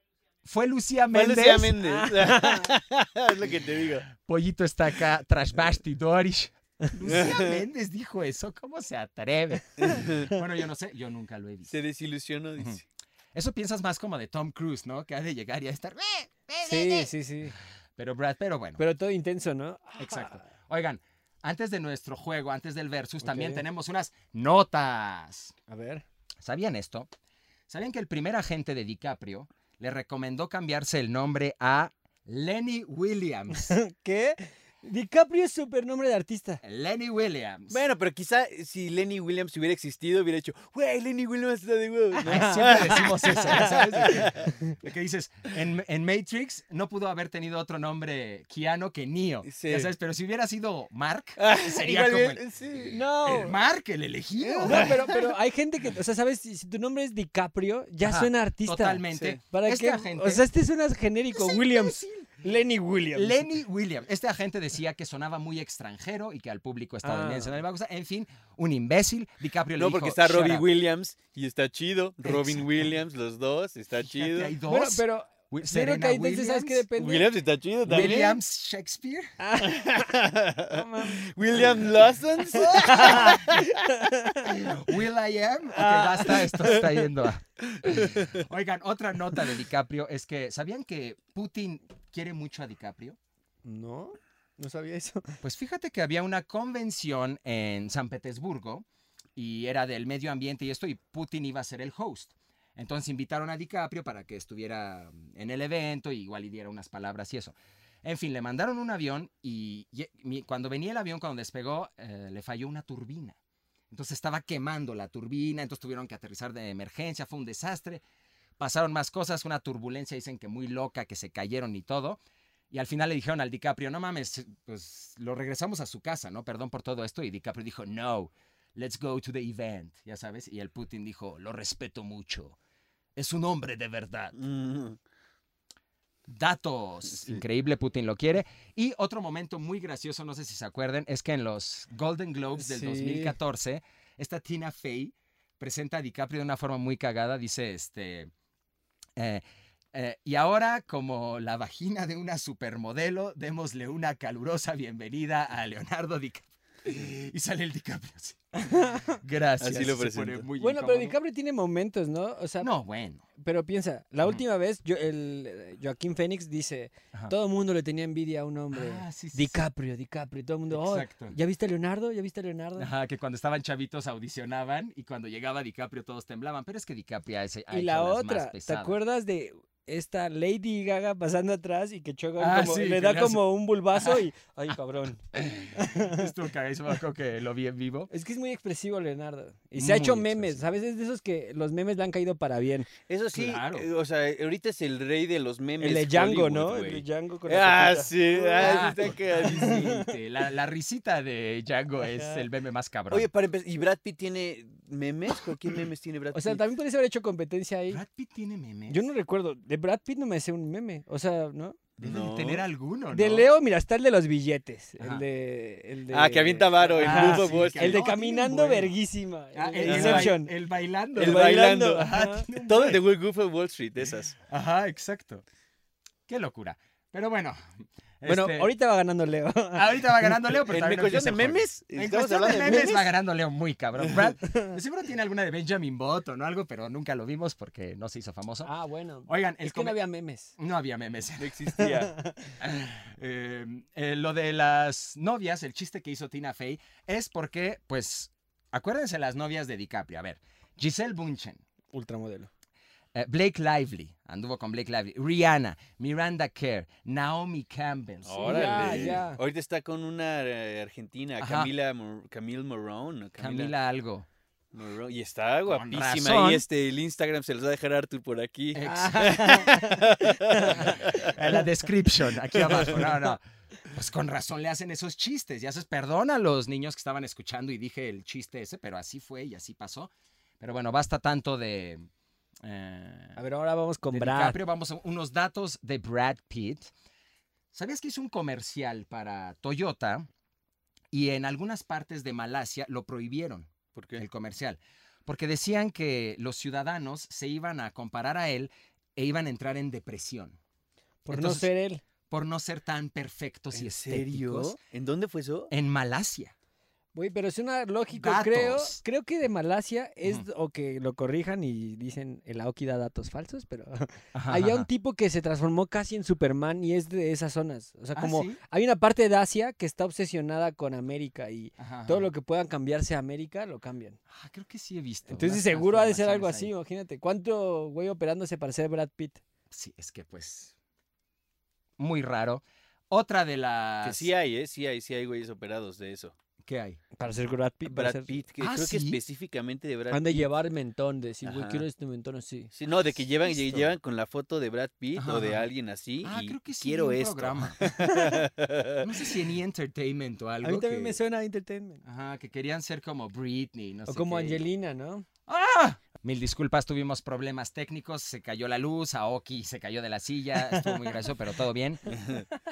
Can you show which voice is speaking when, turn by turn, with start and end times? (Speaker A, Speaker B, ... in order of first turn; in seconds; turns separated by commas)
Speaker A: 0.5-1.8, Speaker B: 1.1-4.1, Speaker C: 1.9-2.7, Speaker A: 4.2-11.8, Speaker B: 7.1-7.6, Speaker B: 9.8-10.3, Speaker B: 11.7-12.8, Speaker A: 13.3-17.1, Speaker C: 16.6-17.6, Speaker A: 18.0-18.8, Speaker C: 18.8-20.4, Speaker A: 20.0-25.5, Speaker C: 23.2-23.6, Speaker C: 25.7-26.1, Speaker A: 26.4-27.1, Speaker A: 27.7-33.7, Speaker C: 33.5-36.6, Speaker A: 36.6-37.8, Speaker B: 37.7-44.5, Speaker A: 42.2-55.0, Speaker C: 42.3-43.6, Speaker C: 44.4-44.7, Speaker B: 49.5-49.9, Speaker B: 51.4-53.0, Speaker C: 52.9-53.6, Speaker B: 54.5-55.3, Speaker C: 54.6-63.5, Speaker A: 58.0-60.5, Speaker B: 59.1-59.4, Speaker A: 61.3-62.4, Speaker A: 63.1-70.7, Speaker C: 67.0-67.6, Speaker B: 69.8-74.6, Speaker A: 72.2-72.7, Speaker A: 74.1-76.8, Speaker C: 74.7-77.3, Speaker B: 77.0-78.4, Speaker A: 77.9-79.3, Speaker C: 79.4-80.1, Speaker B: 79.6-84.2, Speaker C: 80.7-81.3, Speaker A: 82.5-83.5, Speaker C: 82.7-84.5, Speaker A: 84.4-93.2, Speaker C: 85.7-86.9, Speaker B: 87.7-88.4, Speaker C: 93.7-95.4, Speaker A: 95.4-98.8, Speaker A: 99.4-113.4, Speaker A: 113.9-118.0, Speaker A: 118.6-122.2, Speaker A: 122.7-132.6, Speaker A: 133.2-134.4, Speaker B: 134.4-135.0, Speaker A: 136.3-148.3, Speaker C: 142.6-143.4, Speaker A: 149.2-161.2, Speaker C: 158.7-159.2, Speaker B: 159.6-160.5, Speaker C: 160.6-162.7, Speaker A: 162.6-163.2, Speaker C: 163.4-172.9, Speaker A: 168.7-169.6, Speaker A: 170.7-171.4, Speaker A: 172.8-179.0, Speaker C: 177.7-186.3, Speaker A: 182.4-184.2, Speaker A: 185.3-188.1, Speaker C: 188.1-192.9, Speaker A: 189.8-190.6, Speaker B: 193.1-199.9, Speaker A: 193.3-193.9, Speaker C: 195.8-200.1, Speaker A: 198.6-203.3, Speaker B: 203.1-206.6, Speaker C: 206.3-208.0, Speaker A: 207.9-209.1, Speaker C: 208.9-211.8, Speaker A: 212.0-213.5, Speaker B: 212.0-212.7, Speaker C: 213.1-220.5, Speaker A: 215.0-215.2, Speaker B: 216.1-218.0, Speaker A: 216.8-218.9, Speaker A: 219.5-223.0, Speaker B: 219.8-220.3, Speaker C: 221.2-222.5, Speaker B: 221.2-224.3, Speaker A: 224.5-225.4, Speaker A: 226.3-227.6, Speaker A: 228.2-228.7, Speaker C: 228.2-230.3, Speaker A: 229.8-238.7, Speaker B: 230.7-233.1, Speaker C: 234.4-234.8, Speaker C: 238.6-240.6, Speaker A: 239.3-240.0, Speaker A: 240.6-241.6, Speaker B: 241.4-242.1, Speaker C: 241.8-242.6, Speaker A: 242.6-251.6, Speaker C: 251.9-252.5, Speaker A: 253.1-259.2, Speaker B: 258.2-263.7, Speaker C: 258.4-259.4, Speaker A: 261.4-261.7, Speaker A: 263.4-264.3, Speaker B: 264.7-271.3, Speaker A: 265.7-266.6, Speaker A: 268.7-269.6, Speaker C: 268.8-271.3, Speaker A: 270.7-282.1, Speaker B: 272.6-273.0, Speaker A: 282.6-283.4, Speaker C: 283.4-284.6, Speaker A: 284.1-286.9, Speaker A: 287.7-290.3, Speaker A: 291.1-300.6, Speaker B: 293.9-294.2, Speaker C: 301.2-302.0, Speaker A: 301.3-301.7, Speaker A: 302.3-304.8, Speaker B: 303.7-305.7, Speaker A: 305.7-306.5, Speaker C: 307.1-324.2, Speaker A: 308.1-309.0, Speaker A: 314.3-314.9, Speaker A: 318.1-318.6, Speaker A: 321.8-322.3, Speaker A: 324.3-326.7, Speaker C: 325.3-329.4, Speaker A: 329.7-330.7, Speaker A: 332.0-334.3, Speaker B: 334.0-336.3, Speaker A: 336.6-337.0, Speaker C: 337.2-338.3, Speaker B: 337.9-340.5, Speaker A: 338.6-339.2, Speaker C: 340.1-342.7, Speaker B: 341.4-341.9, Speaker B: 342.8-349.1, Speaker A: 343.5-343.9, Speaker A: 345.1-345.7, Speaker A: 346.2-347.9, Speaker C: 348.0-348.5, Speaker A: 349.0-351.2, Speaker C: 350.6-352.0, Speaker A: 352.0-354.6, Speaker C: 354.1-355.3, Speaker A: 355.5-362.2, Speaker C: 360.7-361.1, Speaker B: 362.1-362.4